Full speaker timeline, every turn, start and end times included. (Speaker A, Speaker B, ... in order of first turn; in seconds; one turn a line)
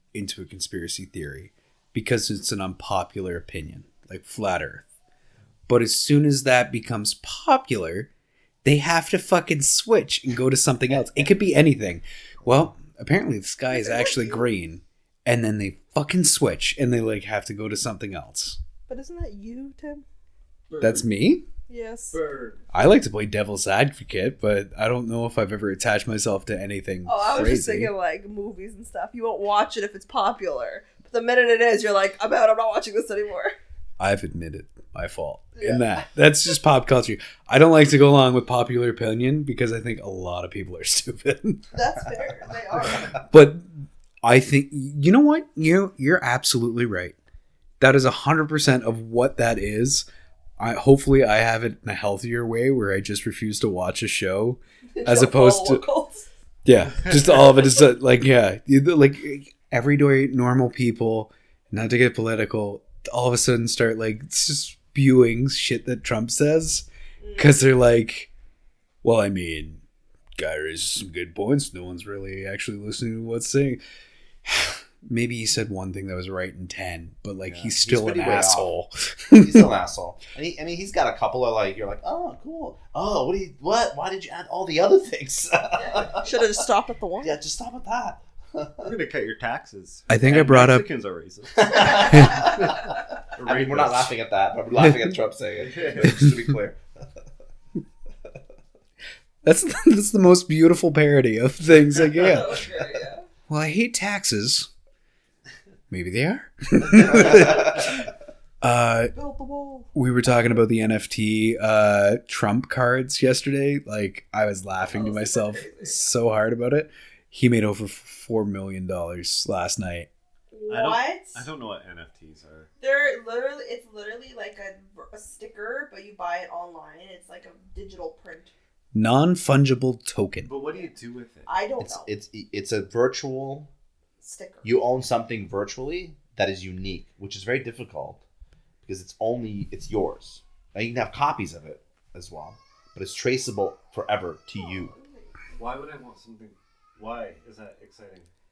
Speaker A: 0.1-4.8
Speaker A: 5.7-8.1
Speaker A: 8.6-18.6
Speaker B: 10.9-11.3
Speaker C: 13.7-14.4
Speaker C: 18.9-20.0
Speaker A: 20.8-21.4
Speaker C: 21.7-22.2
Speaker D: 22.1-22.6
Speaker A: 22.7-27.9
Speaker C: 27.1-33.5
Speaker A: 34.0-41.7
Speaker C: 35.5-35.8
Speaker C: 41.7-43.1
Speaker A: 43.3-47.2
Speaker A: 47.8-50.1
Speaker A: 50.6-55.8
Speaker C: 54.9-56.3
Speaker A: 56.6-66.9
Speaker C: 67.2-67.6
Speaker A: 67.4-68.3
Speaker A: 69.0-69.8
Speaker A: 70.4-73.8
Speaker A: 74.5-79.7
Speaker B: 77.5-78.7
Speaker B: 79.3-86.4
Speaker C: 85.8-87.4
Speaker B: 87.2-88.9
Speaker D: 88.8-94.2
Speaker A: 90.1-90.9
Speaker B: 91.5-96.8
Speaker A: 92.1-92.5
Speaker A: 94.8-95.2
Speaker D: 95.6-96.2
Speaker A: 96.0-96.4
Speaker A: 99.4-102.6
Speaker C: 102.2-103.2
Speaker A: 103.5-104.7
Speaker A: 105.9-108.1
Speaker A: 108.6-109.1
Speaker C: 109.1-109.9
Speaker A: 109.9-120.1
Speaker C: 114.9-116.0
Speaker C: 120.5-121.4
Speaker D: 120.7-122.7
Speaker C: 122.8-128.5
Speaker A: 128.9-130.5
Speaker D: 130.4-131.5
Speaker C: 131.5-132.1
Speaker B: 131.8-133.7
Speaker C: 134.2-134.7
Speaker B: 134.6-138.2
Speaker B: 138.8-144.9
Speaker C: 144.6-145.3
Speaker D: 145.6-148.3